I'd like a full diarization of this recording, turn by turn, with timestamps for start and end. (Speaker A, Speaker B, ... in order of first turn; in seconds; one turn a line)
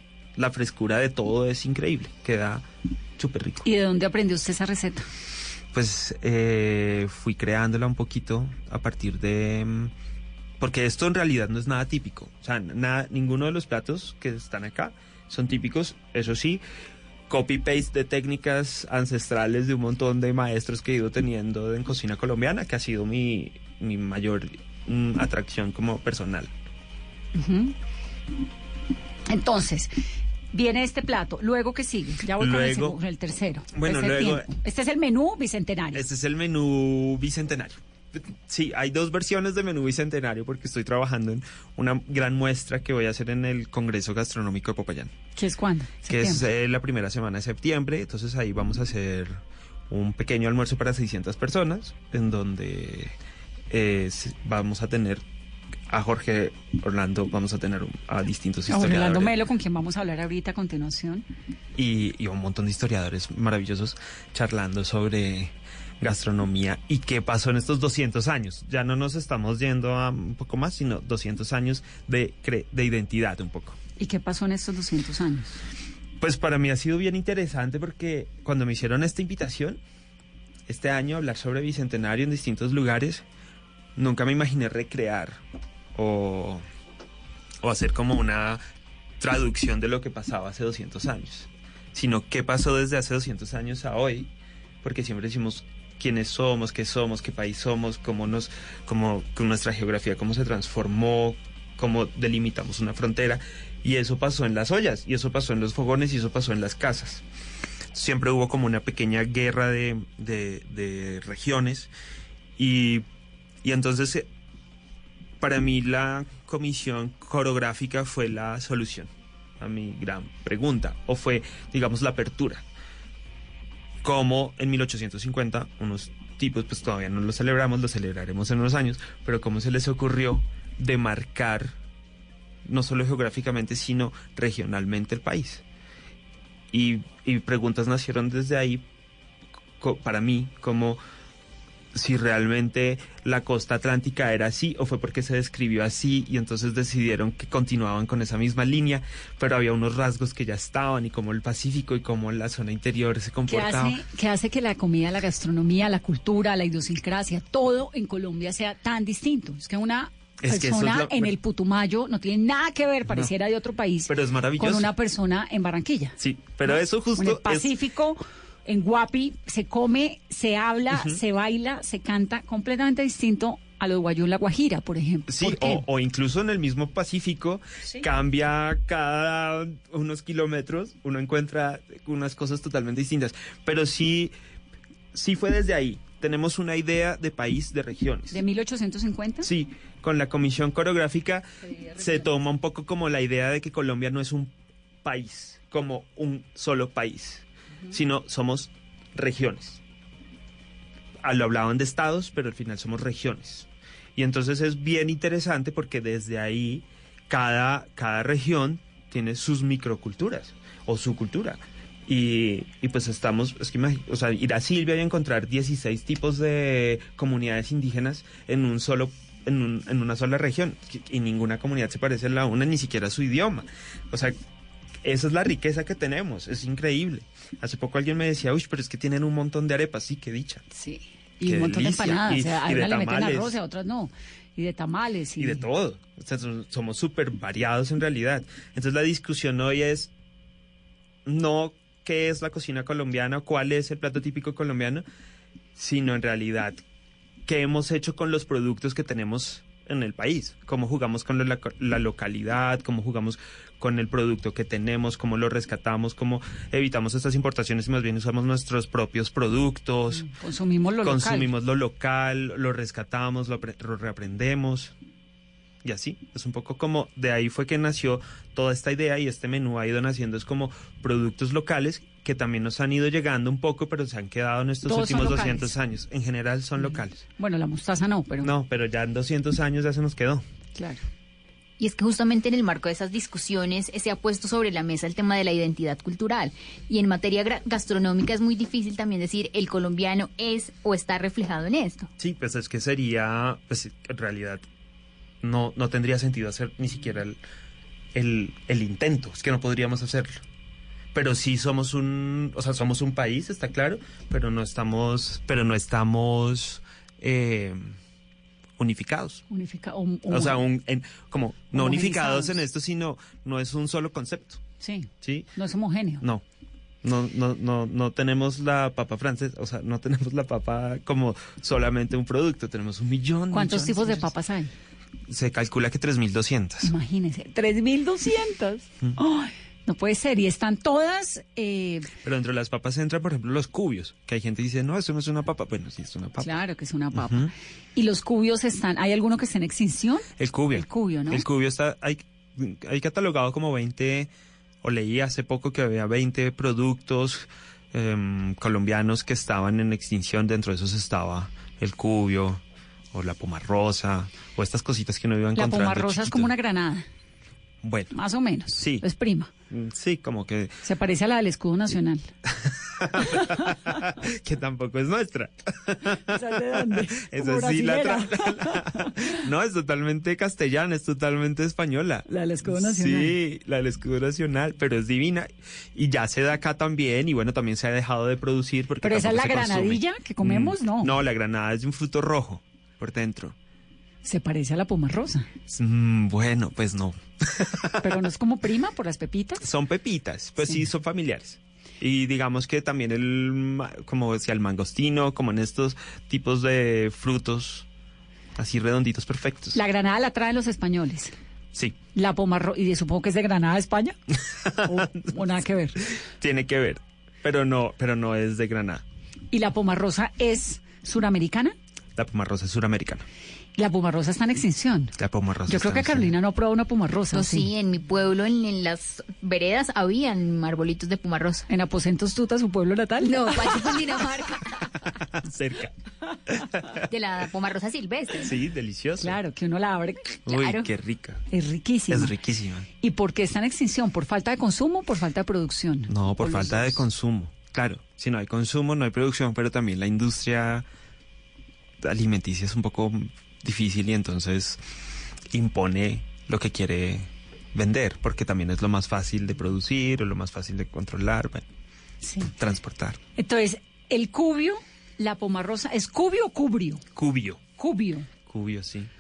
Speaker A: 0.3-3.6
Speaker B: 3.6-5.1
Speaker A: 5.7-9.9
Speaker A: 10.6-16.6
Speaker A: 17.3-26.5
Speaker B: 27.3-27.7
Speaker B: 29.3-29.9
Speaker B: 30.5-36.0
Speaker A: 32.4-33.0
Speaker A: 33.7-34.5
Speaker A: 35.9-45.1
Speaker B: 45.4-46.5
Speaker A: 46.1-53.1
Speaker A: 53.7-55.2
Speaker A: 55.9-59.4
Speaker B: 58.7-61.2
Speaker A: 61.7-73.8
Speaker B: 74.0-75.5
Speaker A: 76.2-79.8
Speaker A: 80.7-83.2
Speaker A: 84.0-85.4
Speaker A: 85.9-86.6
Speaker A: 87.6-88.6
Speaker A: 89.2-94.3
Speaker A: 94.8-107.2
Speaker A: 107.9-111.9
Speaker A: 112.5-113.0
Speaker A: 113.6-114.3
Speaker A: 115.4-122.6
Speaker A: 124.0-131.8
Speaker A: 132.7-135.6
Speaker A: 136.7-138.8
Speaker A: 139.8-141.0
Speaker A: 141.9-154.0
Speaker B: 153.5-175.8
Speaker A: 160.4-161.3
Speaker A: 163.1-163.3
Speaker A: 164.1-164.9
Speaker A: 166.2-167.8
Speaker A: 170.9-171.2
Speaker A: 175.3-184.3
Speaker A: 185.1-188.4
Speaker B: 188.3-189.5
Speaker A: 189.4-199.8
Speaker A: 201.2-224.4
Speaker A: 225.0-230.6
Speaker B: 230.7-235.6
Speaker A: 231.4-233.6
Speaker A: 235.4-240.1
Speaker A: 241.2-245.0
Speaker A: 245.7-246.8
Speaker A: 247.4-260.3
Speaker B: 260.1-261.5
Speaker A: 261.0-264.9
Speaker A: 265.8-277.2
Speaker B: 274.9-275.7
Speaker B: 276.8-278.5
Speaker A: 278.4-280.4
Speaker B: 280.7-281.0
Speaker C: 281.8-292.1
Speaker A: 292.2-294.6
Speaker A: 295.4-297.4
Speaker A: 298.1-300.4
Speaker A: 301.1-307.9
Speaker A: 308.8-309.4
Speaker B: 309.5-310.6
Speaker A: 310.3-314.6
Speaker B: 311.7-312.5
Speaker B: 314.8-316.2
Speaker A: 315.2-315.5
Speaker A: 317.0-324.3
Speaker B: 323.5-324.7
Speaker A: 325.3-326.9
Speaker B: 326.8-332.1
Speaker A: 332.2-336.5
Speaker B: 336.4-341.4
Speaker A: 337.1-337.5
Speaker A: 340.4-344.3
Speaker A: 344.8-352.6
Speaker A: 353.1-356.5
Speaker B: 355.6-357.0
Speaker A: 357.8-358.1
Speaker B: 358.1-359.5
Speaker A: 358.7-359.0
Speaker A: 359.7-360.8
Speaker B: 360.8-362.3
Speaker A: 362.4-383.6
Speaker B: 363.2-363.8
Speaker B: 366.2-369.3
Speaker B: 372.3-373.4
Speaker B: 379.0-381.1
Speaker B: 384.2-385.5
Speaker A: 385.7-388.2
Speaker B: 388.0-389.6
Speaker A: 389.6-397.9
Speaker A: 398.5-399.8
Speaker B: 399.7-401.3
Speaker B: 402.1-404.2
Speaker A: 404.4-409.0
Speaker B: 404.8-406.0
Speaker B: 409.5-411.8
Speaker A: 412.1-413.2
Speaker B: 413.8-415.1
Speaker A: 415.2-416.3
Speaker B: 415.7-417.7
Speaker C: 417.3-421.7
Speaker B: 421.7-423.9
Speaker C: 423.2-424.9
Speaker A: 425.0-425.9
Speaker A: 426.5-427.1
Speaker C: 427.1-428.5
Speaker A: 428.4-429.4
Speaker B: 429.2-430.4
Speaker A: 430.4-431.4
Speaker C: 430.5-430.9
Speaker B: 431.5-432.4
Speaker A: 432.1-432.9
Speaker B: 433.0-437.0
Speaker A: 436.1-440.9
Speaker A: 442.0-444.8
Speaker A: 445.5-451.6
Speaker B: 452.2-452.5
Speaker A: 452.6-453.2
Speaker B: 453.4-457.0
Speaker A: 457.1-457.6
Speaker B: 457.8-458.3
Speaker A: 458.4-459.1